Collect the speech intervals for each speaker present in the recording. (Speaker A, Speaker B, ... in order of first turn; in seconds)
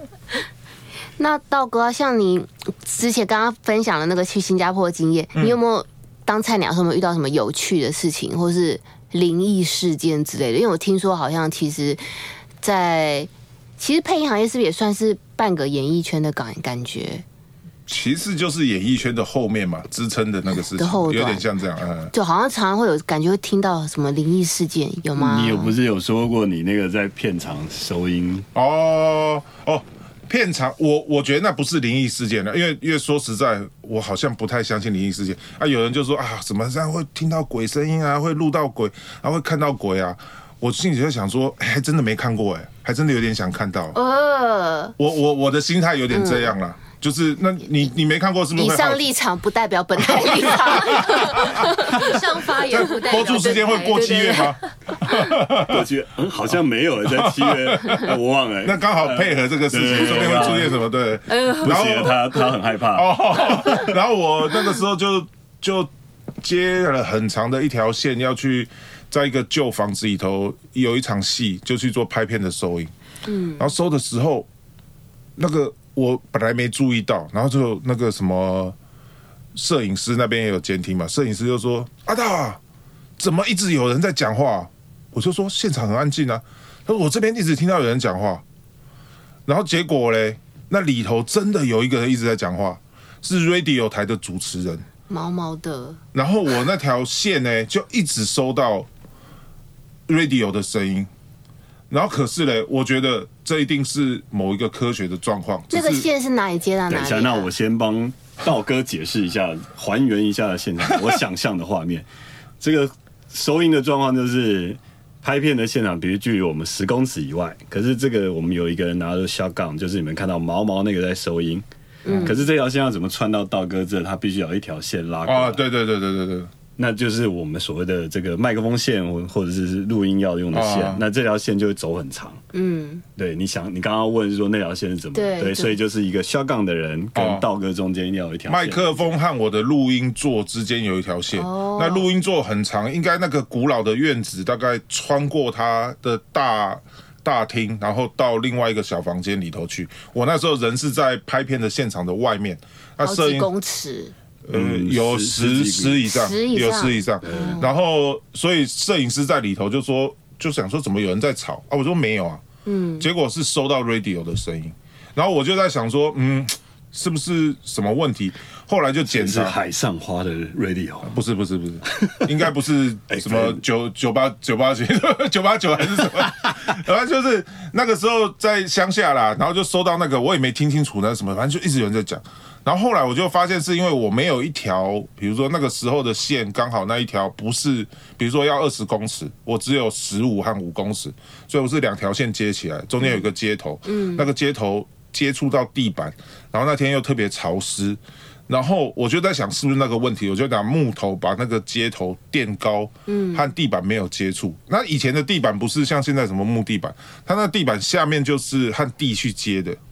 Speaker A: 1.2-12.0, 12.6-17.2, 20.8-21.4, 22.1-25.7, 43.9-45.0, 46.1-46.5, 48.5-52.2, 54.0-54.4, 61.3-61.7, 73.2-73.7, 95.1-96.0, 105.7-107.5, 122.0-122.4, 132.5-133.0, 135.1-135.8, 141.3-142.1, 153.0-154.1, 156.0-157.7, 162.7-163.1, 193.9-194.2, 203.1-203.5
Speaker B: 17.9-22.1, 28.5-44.0, 45.0-49.0, 50.1-51.7, 52.6-55.9, 57.1-62.3, 62.9-72.9, 73.6-74.5, 75.4-78.8, 79.5-82.6, 83.2-88.4, 89.5-94.8, 96.1-98.9, 100.1-101.1, 101.9-106.1, 122.1-122.3, 125.2-126.5, 130.5-131.0, 137.1-137.4, 138.5-153.5, 154.4-162.4, 163.0-169.6, 171.0-209.8
Speaker C: 25.1-28.5, 55.6-60.8, 61.6-64.0, 106.9-112.1, 112.6-121.6, 122.2-125.6, 126.8-132.4, 133.2-139.0, 154.5-156.1, 157.2-157.6, 169.1-171.1, 171.9-172.3, 173.1-173.6
Speaker D: 51.8-54.6